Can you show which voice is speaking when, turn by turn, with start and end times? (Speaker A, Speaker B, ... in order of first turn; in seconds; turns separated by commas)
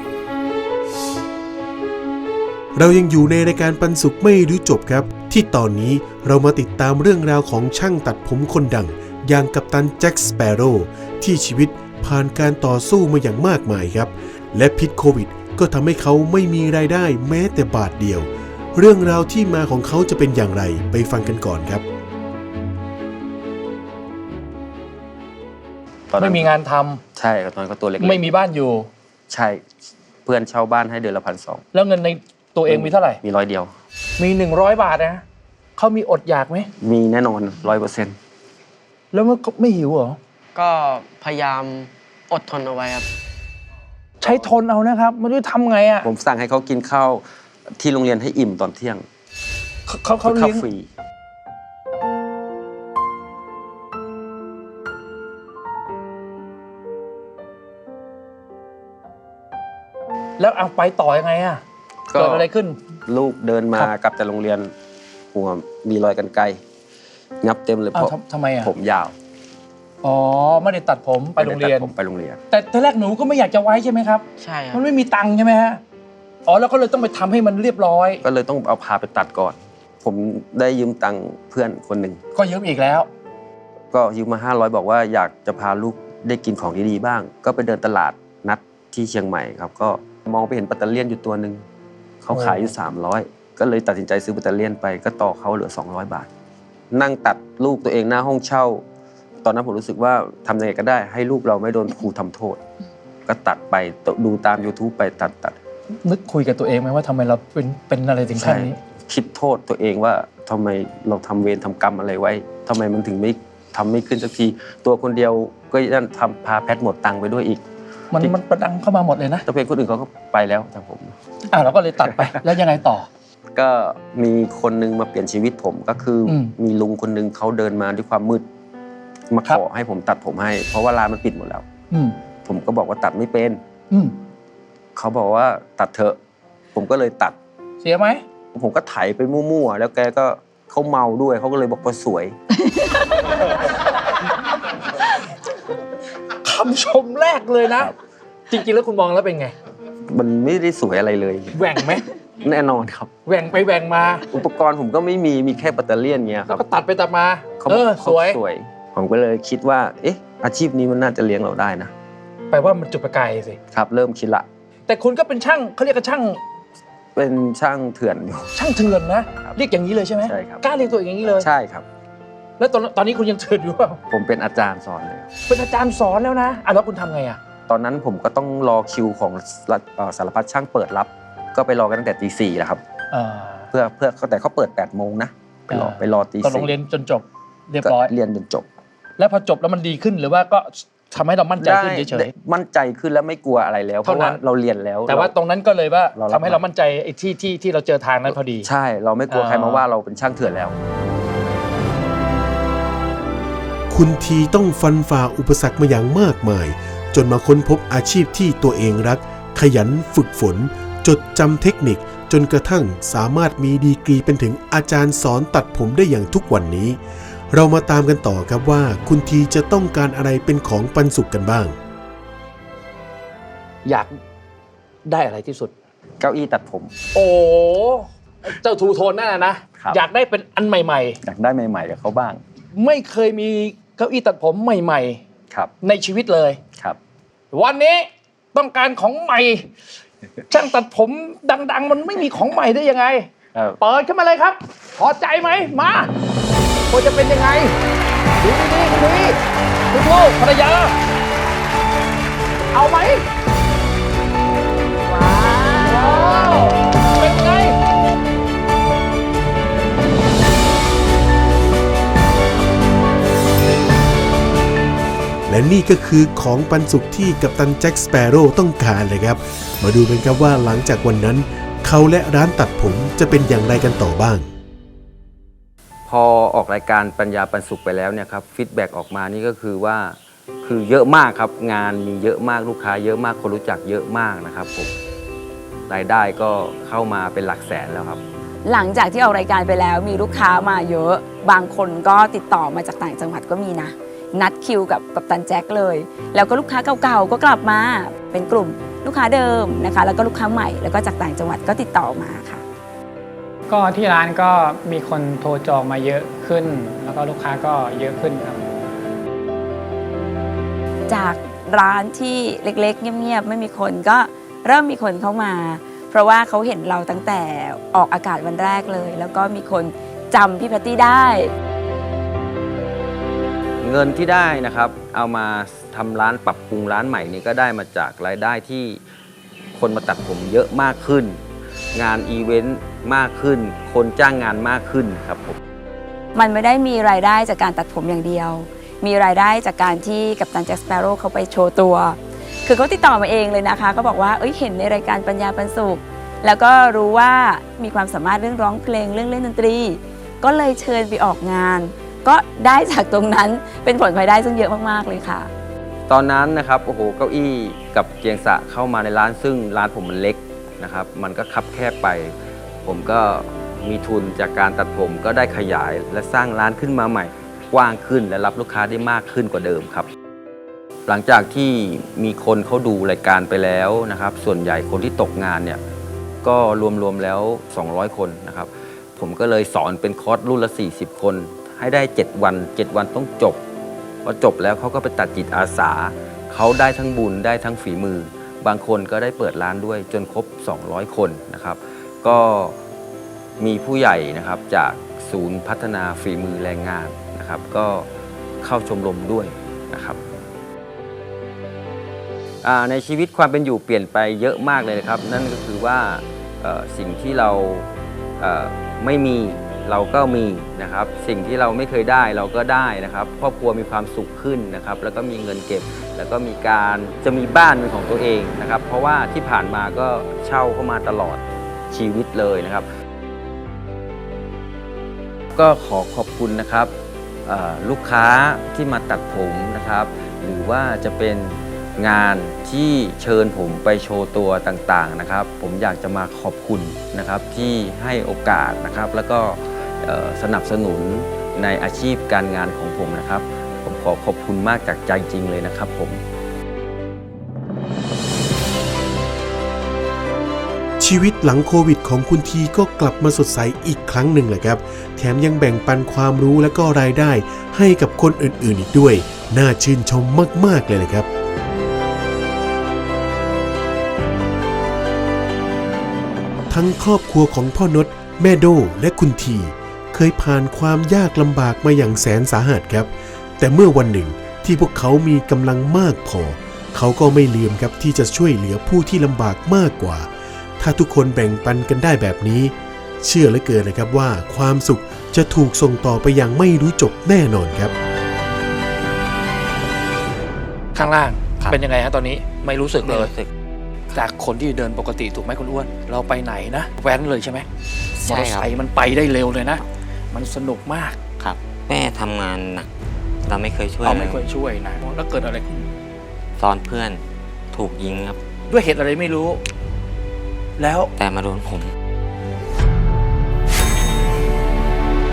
Speaker A: 2.8-21.8, Speaker B: 26.1-26.5, Speaker C: 26.2-27.0, Speaker B: 27.2-28.3, Speaker C: 28.0-28.9, Speaker B: 29.3-29.6, Speaker B: 30.2-31.6, Speaker C: 31.7-33.2, Speaker B: 32.7-33.7, Speaker C: 34.2-35.2, Speaker C: 35.8-36.7, Speaker B: 36.8-38.2, Speaker C: 39.1-40.2, Speaker C: 44.2-46.1, Speaker B: 46.0-47.2, Speaker B: 47.8-49.1, Speaker C: 49.9-50.7, Speaker B: 50.2-50.9, Speaker C: 60.4-61.6, Speaker B: 62.1-62.5, Speaker C: 62.1-62.8, Speaker B: 63.1-64.7, Speaker B: 65.3-66.6, Speaker B: 67.4-69.1, Speaker C: 67.9-68.7, Speaker C: 70.0-71.9, Speaker B: 71.4-72.4, Speaker C: 72.5-75.8, Speaker C: 76.5-78.2, Speaker B: 78.2-82.2, Speaker C: 82.4-83.1, Speaker B: 83.9-91.6, Speaker B: 92.2-96.3, Speaker C: 92.3-92.7, Speaker B: 96.9-98.8, Speaker B: 99.4-102.6, Speaker B: 103.3-105.6, Speaker C: 106.0-108.8, Speaker B: 108.4-117.6, Speaker C: 118.1-119.5, Speaker B: 119.5-121.2, Speaker C: 121.5-123.1, Speaker B: 122.0-122.4, Speaker B: 123.5-128.5, Speaker C: 126.3-126.5, Speaker B: 129.3-131.7, Speaker C: 131.9-132.2, Speaker B: 132.4-133.6, Speaker B: 135.0-136.2, Speaker B: 136.8-137.4, Speaker C: 137.8-138.2, Speaker B: 138.6-142.4, Speaker C: 146.4-147.9, Speaker C: 148.5-149.6, Speaker B: 150.1-151.7, Speaker C: 151.5-152.1, Speaker B: 152.4-153.1, Speaker C: 153.3-154.3, Speaker B: 154.3-156.6, Speaker C: 156.5-158.4, Speaker B: 157.6-161.9, Speaker C: 162.5-163.6, Speaker B: 163.7-164.5, Speaker C: 164.9-166.4, Speaker B: 167.2-168.5, Speaker C: 168.6-171.5, Speaker B: 170.2-170.6, Speaker B: 171.4-171.9, Speaker C: 172.6-174.0, Speaker B: 174.1-175.3, Speaker C: 175.5-177.4, Speaker B: 177.7-182.8, Speaker C: 183.1-183.7, Speaker B: 183.7-186.7, Speaker C: 185.7-188.1, Speaker B: 187.8-188.7, Speaker C: 189.2-192.3, Speaker B: 191.6-195.3, Speaker C: 194.0-194.4, Speaker C: 195.1-198.7, Speaker B: 196.1-196.6, Speaker B: 198.3-200.8, Speaker C: 199.3-199.8, Speaker A: 203.9-217.0, Speaker A: 217.5-221.8, Speaker C: 223.8-224.2, Speaker C: 225.1-225.7, Speaker B: 226.2-226.9, Speaker C: 227.1-231.2, Speaker B: 231.2-232.4, Speaker C: 232.8-235.2, Speaker C: 235.8-236.6, Speaker C: 237.5-239.7, Speaker C: 240.5-243.3, Speaker C: 243.8-246.1, Speaker C: 246.9-247.8, Speaker C: 248.4-249.4, Speaker C: 249.9-250.9, Speaker C: 252.7-253.2, Speaker C: 255.1-257.8, Speaker A: 265.5-274.5, Speaker B: 276.1-284.9, Speaker B: 285.9-288.2, Speaker D: 288.6-302.6, Speaker E: 303.7-308.7, Speaker D: 311.1-321.5, Speaker B: 323.8-329.0, Speaker B: 329.8-331.4, Speaker B: 331.9-335.6, Speaker D: 336.4-355.5, Speaker B: 356.1-370.1, Speaker B: 371.1-375.8, Speaker B: 376.4-383.6, Speaker B: 384.2-392.8, Speaker B: 393.6-398.1, Speaker B: 398.6-400.2, Speaker B: 402.6-407.9, Speaker B: 408.4-422.9, Speaker B: 425.6-426.9, Speaker B: 427.5-446.2, Speaker A: 451.0-461.3, Speaker A: 466.7-487.9, Speaker C: 490.9-493.3, Speaker F: 493.0-493.5, Speaker C: 494.1-497.7, Speaker F: 498.2-498.7, Speaker C: 498.3-501.2, Speaker F: 501.4-502.9, Speaker F: 503.5-504.4, Speaker C: 504.0-505.9, Speaker F: 506.6-508.4, Speaker C: 508.7-509.6, Speaker C: 510.8-511.1, Speaker F: 511.2-511.9